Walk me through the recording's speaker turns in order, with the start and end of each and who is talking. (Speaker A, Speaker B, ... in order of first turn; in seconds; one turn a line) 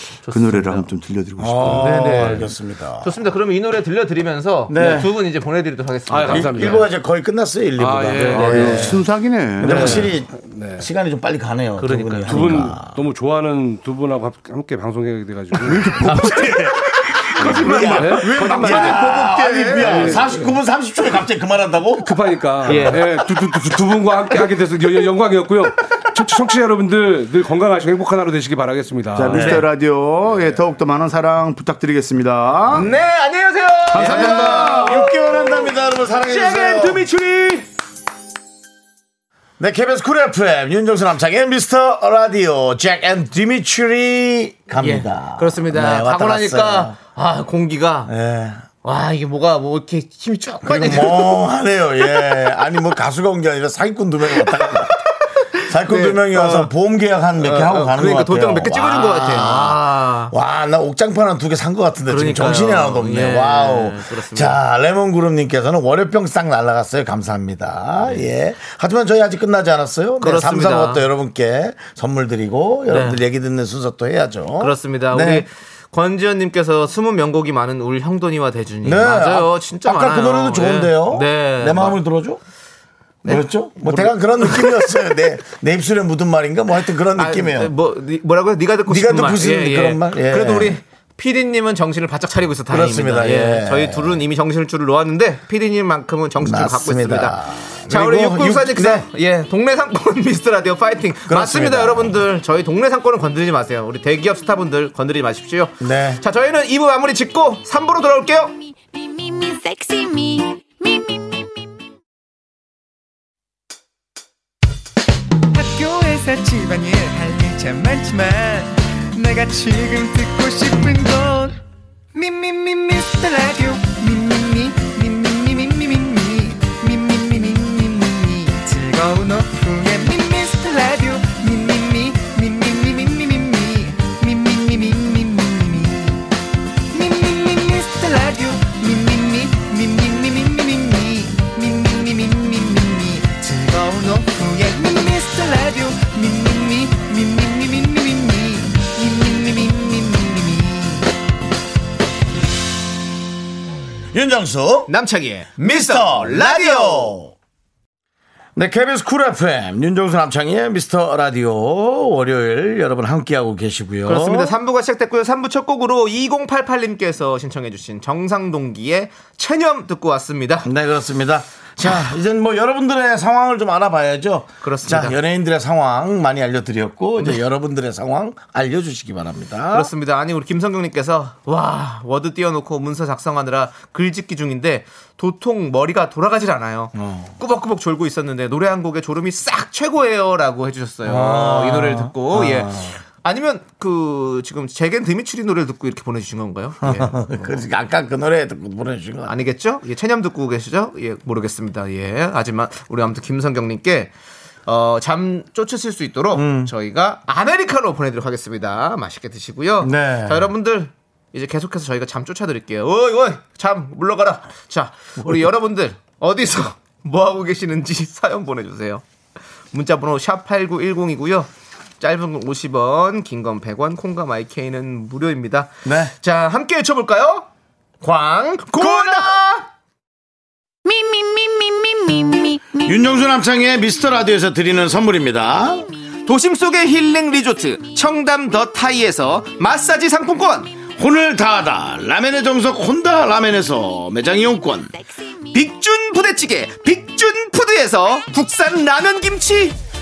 Speaker A: 0.2-0.9
Speaker B: 0.3-2.4
Speaker C: 1.4-3.2
Speaker A: 1.7-6.8
Speaker C: 4.7-5.1
Speaker D: 6.1-6.9
Speaker C: 6.3-8.9
Speaker D: 7.8-9.0
Speaker A: 8.2-9.0
Speaker B: 8.3-10.1
Speaker C: 9.6-13.0
Speaker D: 9.6-10.9
Speaker A: 9.7-9.9
Speaker A: 11.8-12.6
Speaker D: 12.3-16.0
Speaker B: 15.6-16.7
Speaker C: 16.0-23.0
Speaker D: 17.4-19.0
Speaker A: 17.4-19.0
Speaker B: 17.5-20.3
Speaker D: 19.8-20.6
Speaker D: 22.0-29.6
Speaker A: 22.7-23.0
Speaker B: 29.1-32.9
Speaker C: 29.3-29.6
Speaker A: 29.4-29.6
Speaker A: 32.7-37.7
Speaker B: 33.9-35.0
Speaker C: 34.0-37.1
Speaker D: 34.0-34.3
Speaker C: 39.6-47.0
Speaker A: 44.8-48.1
Speaker C: 48.1-48.7
Speaker A: 48.8-51.5
Speaker C: 50.6-55.0
Speaker A: 54.4-56.7
Speaker C: 55.6-75.5
Speaker A: 57.4-60.3
Speaker A: 62.1-64.6
Speaker A: 70.2-71.0
Speaker A: 72.9-73.2
Speaker A: 74.6-82.0
Speaker C: 78.8-82.4
Speaker A: 83.2-85.0
Speaker C: 83.2-87.7
Speaker A: 87.2-108.5
Speaker C: 88.9-90.8
Speaker C: 92.7-94.2
Speaker C: 96.4-99.1
Speaker C: 101.3-102.2
Speaker C: 105.8-106.2
Speaker E: 108.7-111.7
Speaker F: 115.5-121.6
Speaker F: 122.1-136.3
Speaker F: 136.9-151.1
Speaker C: 154.1-154.9
Speaker A: 154.9-157.2
Speaker C: 155.6-157.3
Speaker C: 158.6-164.6
Speaker A: 164.1-170.7
Speaker C: 170.6-179.9
Speaker A: 174.6-175.2
Speaker A: 179.7-197.2
Speaker C: 186.9-187.3
Speaker C: 191.0-193.0
Speaker C: 196.8-199.3
Speaker A: 199.3-204.1
Speaker A: 204.7-219.0
Speaker C: 206.3-206.7
Speaker C: 209.8-210.5
Speaker C: 215.2-215.5
Speaker A: 219.7-221.5
Speaker A: 222.0-227.5
Speaker C: 225.8-226.1
Speaker A: 228.0-229.7
Speaker C: 228.7-229.4
Speaker E: 230.9-232.8
Speaker C: 232.8-235.9
Speaker A: 236.3-240.7
Speaker C: 241.0-244.9
Speaker A: 245.5-249.8